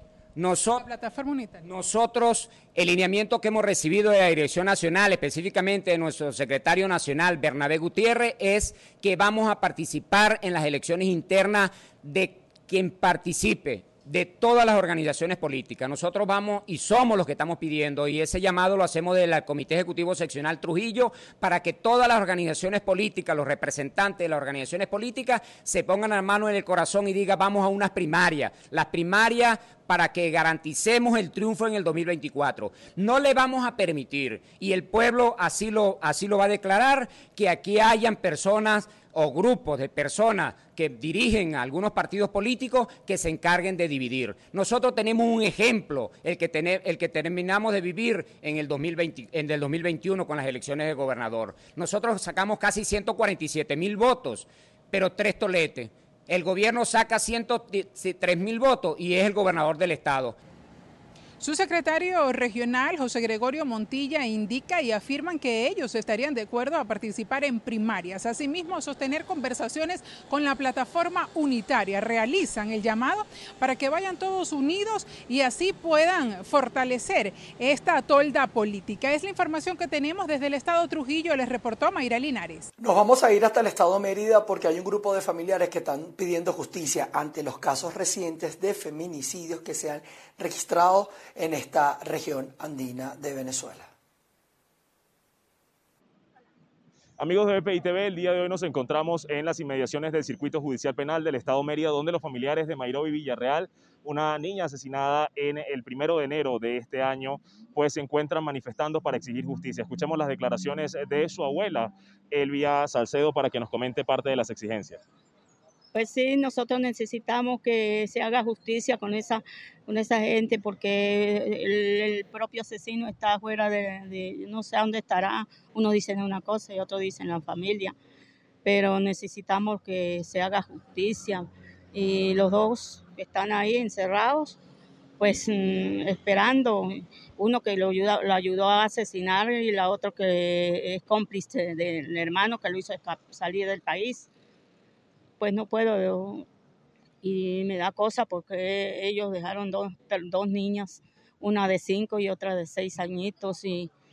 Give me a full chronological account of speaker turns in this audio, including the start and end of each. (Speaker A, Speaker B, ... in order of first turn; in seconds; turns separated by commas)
Speaker A: 0.3-0.9, Speaker B: 0.8-1.6, Speaker A: 1.6-60.4, Speaker B: 61.4-82.7, Speaker C: 82.8-93.9, Speaker D: 97.2-115.0, Speaker E: 115.9-127.9, Speaker E: 128.6-134.6, Speaker E: 135.2-144.3, Speaker E: 145.4-146.4, Speaker E: 147.2-153.9